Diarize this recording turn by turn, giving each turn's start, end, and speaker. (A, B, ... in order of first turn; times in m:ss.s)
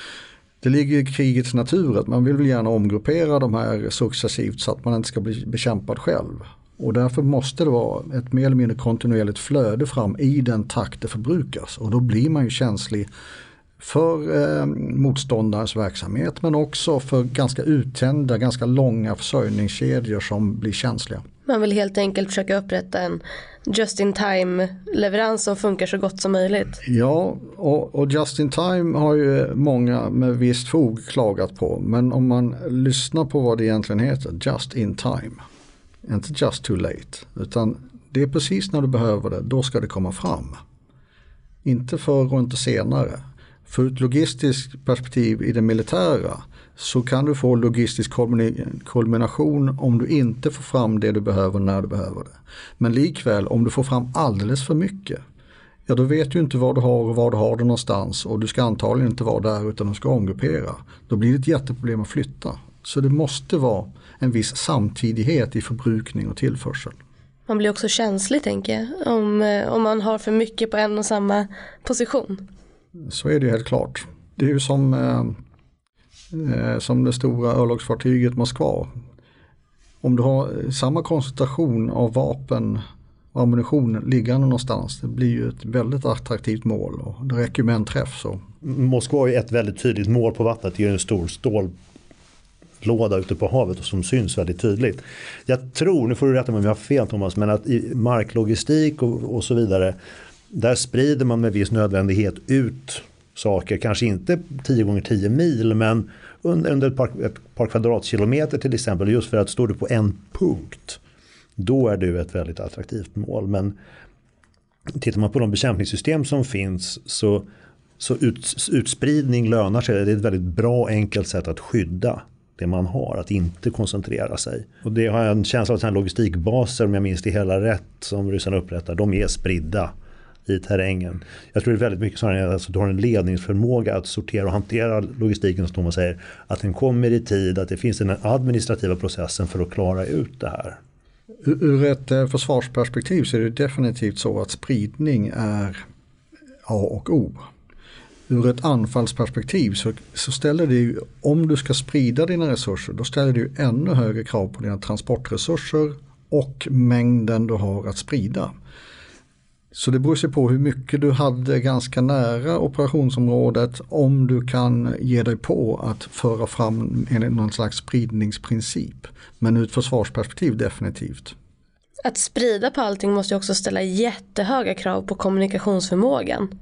0:00.6-0:13.1 A
0:13.8-0:21.2 A
0:21.5-0:26.8 B
0:26.8-0:35.4 A
0:36.0-0:40.6 A
0:41.6-0:55.2 A
0:55.9-1:07.0 A
1:07.5-1:12.4 B
1:13.1-1:15.4 A
1:16.3-1:18.9 A
1:20.0-1:28.4 A
1:28.6-1:31.7 C
1:32.8-1:40.0 C
1:40.5-1:51.0 C
1:51.6-1:53.8 C
1:55.0-1:57.4 C
1:58.0-2:09.9 C
2:10.4-2:20.8 C
2:21.4-2:25.8 A
2:26.6-2:27.4 A
2:28.3-2:38.5 A
2:39.7-2:51.3 A
2:52.0-2:56.5 B